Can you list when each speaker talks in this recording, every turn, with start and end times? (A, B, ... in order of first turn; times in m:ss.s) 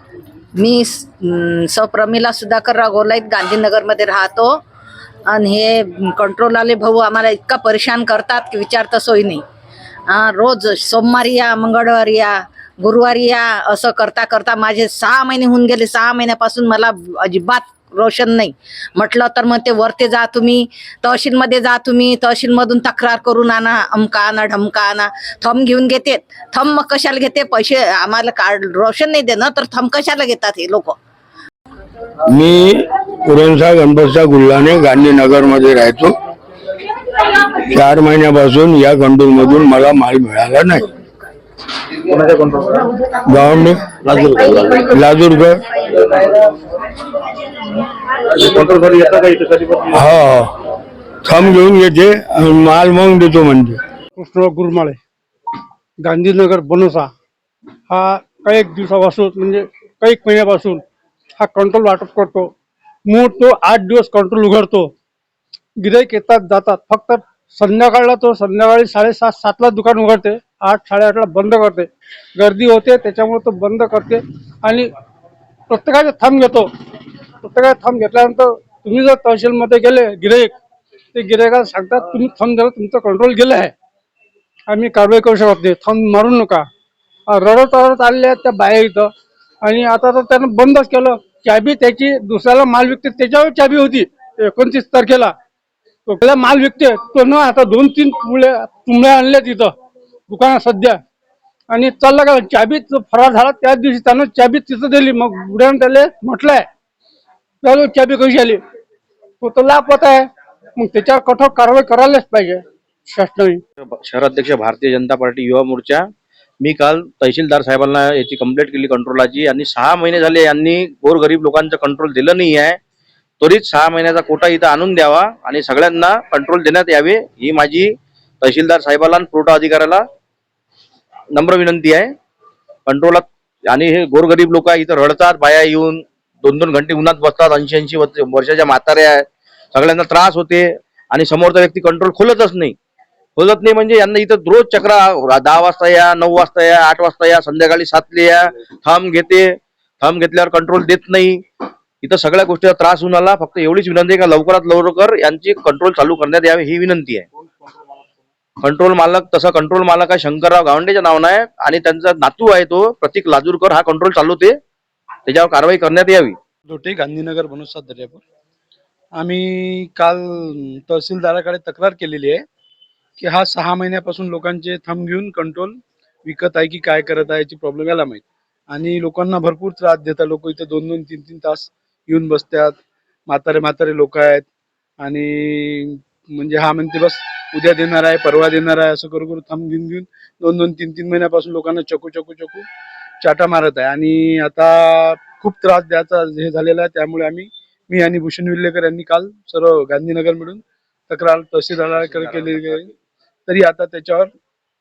0:00.6-0:04.6 A
0:05.3-0:09.4 A
0:10.1-0:31.0 A
0:32.3-0:36.2 B
0:37.6-0:40.9 B
0:42.1-0:42.8 C
0:43.3-0:45.6 B
0:44.6-0:44.9 C
0:48.3-0:50.0 C
0:49.9-0:50.5 B
0:51.2-0:53.8 B
0:54.2-0:55.0 D
0:56.0-0:57.1 D
0:57.9-1:00.8 D
1:01.4-1:02.5 D
1:03.1-1:04.9 D
1:05.8-1:14.9 D
1:15.7-1:16.7 D
1:17.4-1:20.5 D
1:21.1-1:23.7 D
1:24.7-1:26.6 D
1:27.3-1:29.1 D
1:29.6-1:35.3 D
1:36.1-1:39.7 D
1:40.3-1:41.0 D
1:41.7-1:46.7 D
1:47.6-1:48.6 D
1:49.4-1:53.6 D
1:54.0-1:56.1 C
1:56.6-2:02.8 C
2:03.4-2:10.0 C
2:11.4-2:12.2 C
2:12.9-2:22.8 C
2:23.4-2:31.4 C
2:32.0-2:37.3 C
2:38.6-2:44.6 C
2:45.3-2:46.4 C
2:46.7-2:48.2 E
2:49.2-2:52.4 E
2:53.2-3:02.8 E
3:03.3-3:04.4 E
3:05.0-3:12.7 E
3:13.2-3:22.9 E
3:21.9-3:22.9 C
3:23.5-3:24.3 E